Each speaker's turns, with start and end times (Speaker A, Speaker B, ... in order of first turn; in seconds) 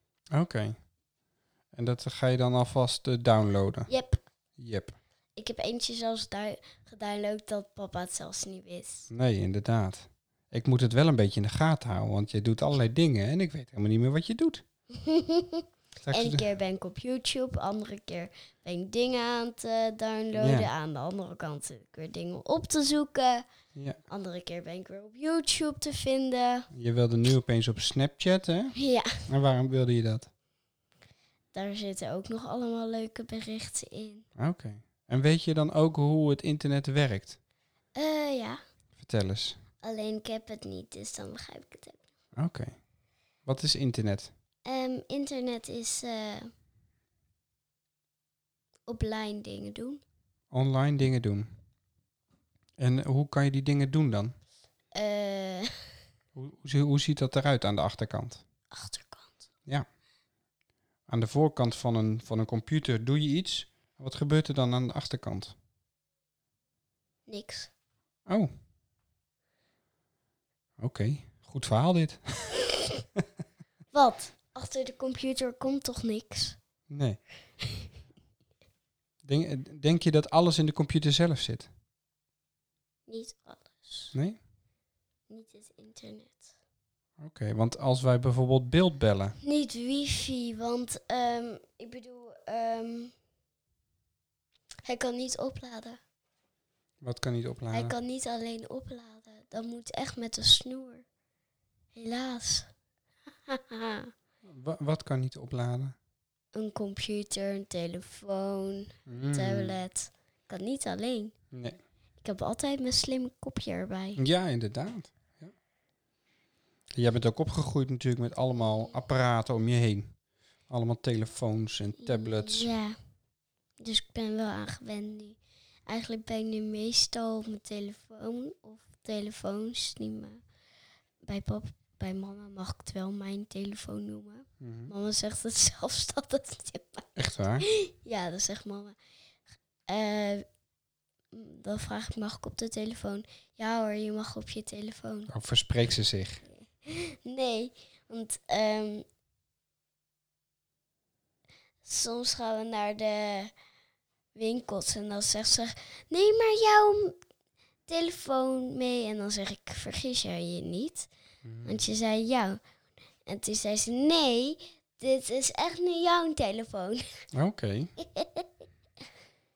Speaker A: 0.3-0.8, 1.7-3.9, 4.6-5.0, 9.1-14.6, 16.0-16.4, 20.4-20.7, 23.7-24.0, 26.7-28.7, 29.3-30.3, 34.4-37.4, 39.0-39.6, 42.4-42.8, 43.5-44.3, 50.5-51.5, 52.8-54.3, 56.4-58.4, 61.1-65.5, 70.8-72.6, 76.9-77.2, 79.2-81.7, 87.2-89.4, 97.0-97.9, 104.4-105.9, 109.1-109.8, 111.5-111.8, 114.2-115.5, 116.9-120.1, 120.7-122.7, 134.6-134.9, 137.2-137.7, 145.3-146.4, 161.4-161.8, 167.3-167.9
Speaker B: 3.9-4.2, 5.3-9.1, 15.0-23.4, 24.1-26.7, 28.8-29.1, 31.5-34.2, 37.9-38.6, 39.8-42.0, 44.6-46.5, 48.9-50.0, 54.9-55.7, 58.7-59.4, 67.3-67.7, 73.9-76.6, 83.1-84.1, 85.3-86.4, 89.4-93.1, 94.8-96.0, 97.7-101.0, 101.9-102.7, 103.5-104.1, 106.5-111.3, 112.2-114.2, 118.6-118.9, 122.0-123.0, 123.8-130.4, 131.2-139.0, 139.9-140.4, 141.3-145.3, 146.4-149.0, 151.8-153.5, 154.3-157.2, 157.9-161.1, 161.6-162.6, 163.2-167.0, 168.0-168.5